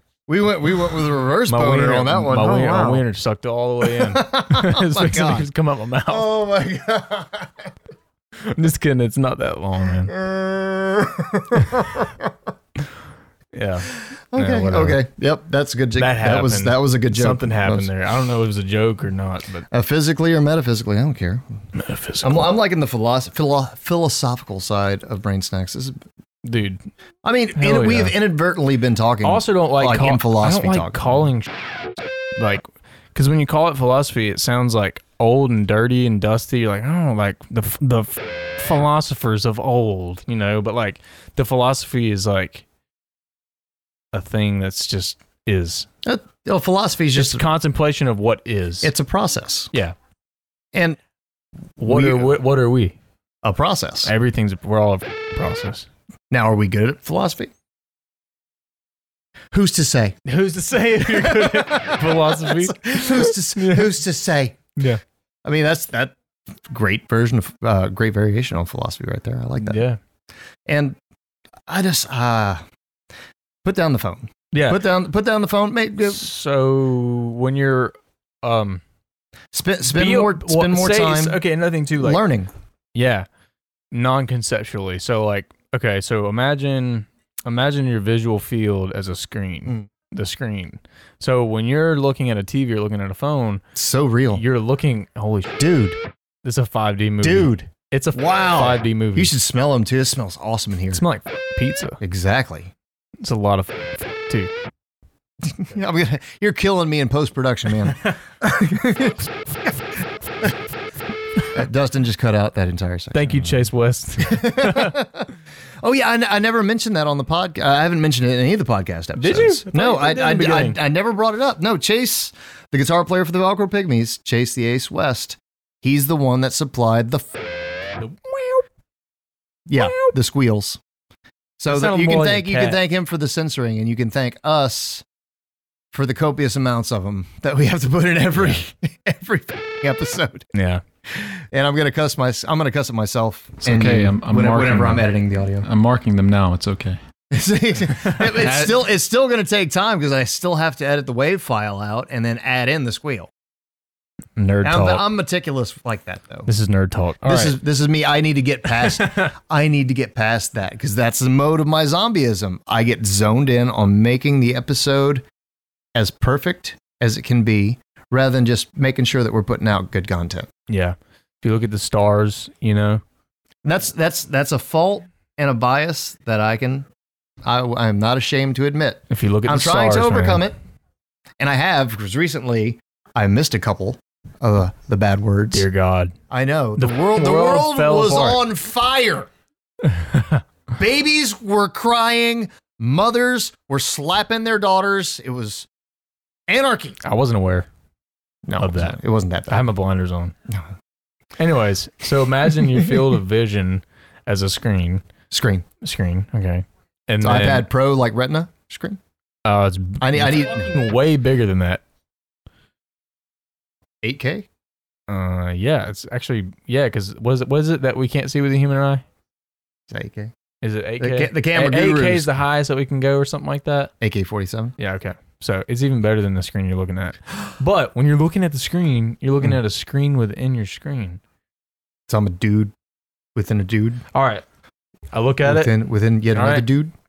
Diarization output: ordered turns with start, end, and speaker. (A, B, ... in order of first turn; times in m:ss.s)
0:00.3-0:03.0 A
0:01.5-0:06.2 B
0:03.8-0:05.5 A
0:06.1-0:07.7 A
0:08.4-0:10.1 B
0:10.0-0:12.3 A
0:13.5-0:15.0 B
0:14.3-0:17.9 A
0:16.0-0:19.7 B
0:19.7-0:21.4 A
0:21.7-0:22.5 B
0:22.2-0:26.0 A
0:26.4-0:26.8 B
0:27.2-0:31.0 A
0:27.6-0:28.2 B
0:29.2-0:31.5 B
0:32.4-0:42.6 B
0:44.1-0:45.9 B
0:46.0-0:47.4 A
0:47.1-0:48.9 B
0:48.8-0:49.7 A
0:50.7-0:51.0 A
0:51.8-0:53.0 B
0:51.8-0:52.4 A
0:53.4-0:54.1 A
0:54.0-0:55.9 B
0:56.3-0:57.5 A
0:59.5-1:00.2 A
1:00.2-1:03.9 B
1:01.0-1:04.6 A
1:04.8-1:05.0 B
1:05.4-1:09.8 A
1:09.6-1:10.0 B
1:10.7-1:11.0 A
1:11.7-1:12.6 A
1:13.6-1:16.3 A
1:14.5-1:14.8 B
1:16.0-1:18.8 B
1:19.5-1:21.4 A
1:19.9-1:22.2 B
1:22.0-1:22.5 A
1:22.9-1:23.3 B
1:23.9-1:33.6 B
1:33.7-1:34.4 A
1:34.3-1:35.6 B
1:35.6-1:36.0 A
1:36.4-1:39.3 B
1:37.2-1:41.0 A
1:40.9-1:42.0 B
1:42.0-1:42.7 A
1:43.2-1:44.5 B
1:45.4-1:49.8 A
1:51.5-1:53.6 A
1:53.1-1:55.0 B
1:54.2-1:55.3 A
1:55.8-2:07.3 A
1:59.2-2:00.8 B
2:08.0-2:08.6 B
2:09.7-2:10.8 A
2:09.7-2:10.1 B
2:11.6-2:15.0 A
2:11.7-2:12.8 B
2:15.9-2:20.5 A
2:20.5-2:20.8 B
2:21.0-2:25.7 A
2:23.6-2:25.1 C
2:25.6-2:27.0 C
2:27.3-2:33.3 A
2:28.3-2:28.8 C
2:34.4-2:35.0 B
2:34.6-2:36.5 A
2:36.5-2:37.6 B
2:37.2-2:45.2 A
2:45.9-2:50.5 A
2:50.7-2:53.0 B
2:53.6-2:56.9 A
2:57.4-3:00.5 A
2:59.1-3:00.4 B
3:01.4-3:05.6 A
3:05.5-3:06.1 B
3:06.3-3:09.3 A
3:06.8-3:08.4 B
3:09.9-3:10.4 B
3:10.7-3:15.7 A
3:16.5-3:17.0 A
3:17.0-3:17.7 B
3:18.4-3:19.6 A
3:18.6-3:20.3 B
3:21.4-3:25.0 B
3:25.3-3:25.6 A
3:25.8-3:27.7 B
3:27.2-3:29.0 A
3:29.4-3:31.8 B
3:30.0-3:30.7 A
3:34.0-3:34.5 A
3:35.1-3:39.0 B
3:39.9-3:40.3 A
3:40.6-3:43.9 B
3:41.0-3:42.3 A
3:44.0-3:44.7 A
3:44.8-3:51.2 B
3:52.1-3:52.7 A
3:53.3-3:54.0 A
3:54.1-3:54.4 B
3:55.1-3:55.7 B
3:55.4-3:56.9 A
3:56.3-3:56.7 B